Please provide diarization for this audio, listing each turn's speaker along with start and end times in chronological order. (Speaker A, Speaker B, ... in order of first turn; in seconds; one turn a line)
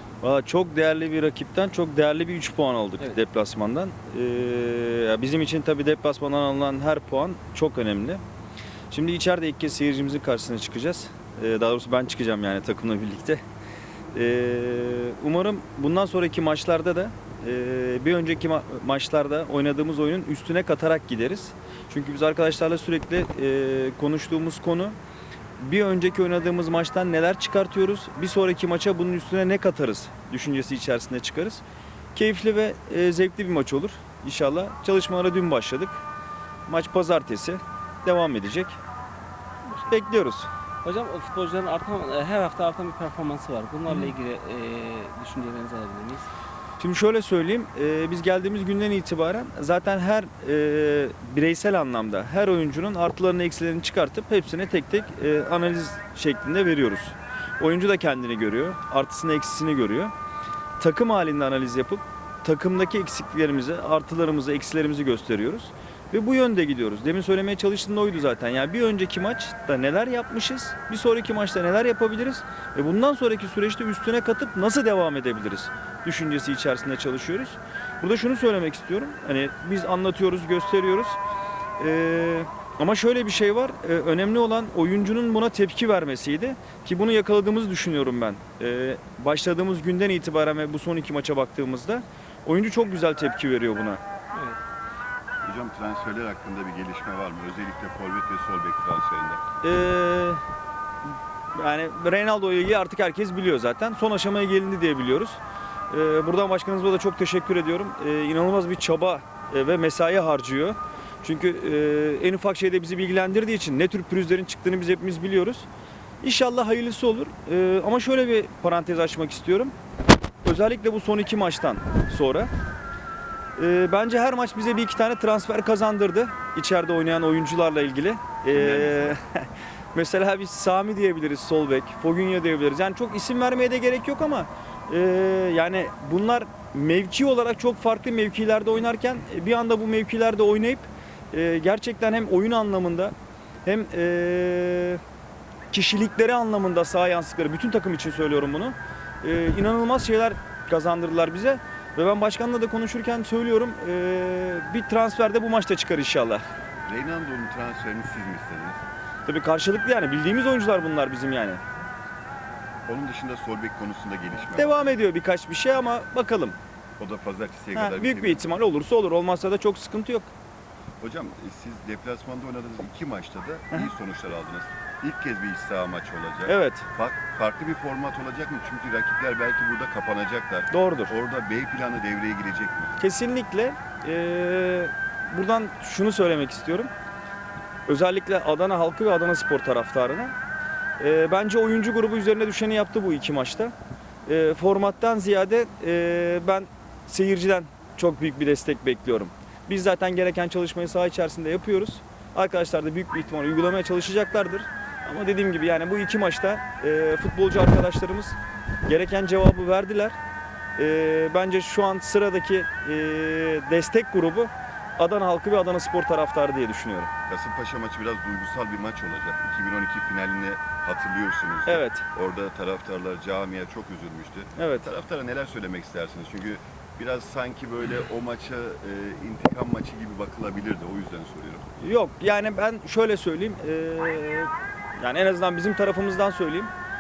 Speaker A: 0.2-8.2
Speaker A: 8.9-13.4
Speaker A: 14.1-25.0
Speaker A: 25.6-31.6
Speaker A: 32.1-36.0
Speaker A: 36.7-38.8
Speaker B: 39.6-40.0
Speaker A: 39.9-40.5
Speaker B: 40.8-46.3
Speaker A: 46.8-60.1
Speaker A: 60.8-81.2
Speaker A: 81.8-94.0
Speaker B: 94.3-94.6
Speaker C: 95.4-99.4
Speaker A: 99.6-100.4
Speaker A: 101.6-105.4
Speaker A: 105.9-115.7
Speaker A: 116.2-119.7
Speaker A: 120.4-122.5
Speaker A: 123.6-143.1
Speaker C: 128.5-129.2
Speaker A: 143.7-145.0
Speaker A: 145.7-156.4
Speaker C: 156.9-158.8
Speaker A: 159.3-161.6
Speaker C: 162.9-164.8
Speaker A: 164.6-166.6
Speaker C: 167.0-168.5
Speaker A: 167.8-170.3
Speaker C: 171.0-183.0
Speaker A: 176.4-176.8
Speaker A: 180.7-181.1
Speaker A: 183.0-186.9
Speaker A: 187.9-190.3
Speaker A: 191.0-193.7
Speaker A: 194.3-210.2
Speaker A: 210.8-217.1
Speaker C: 217.3-231.6
Speaker A: 221.7-222.1
Speaker A: 224.6-224.9
Speaker A: 231.8-236.7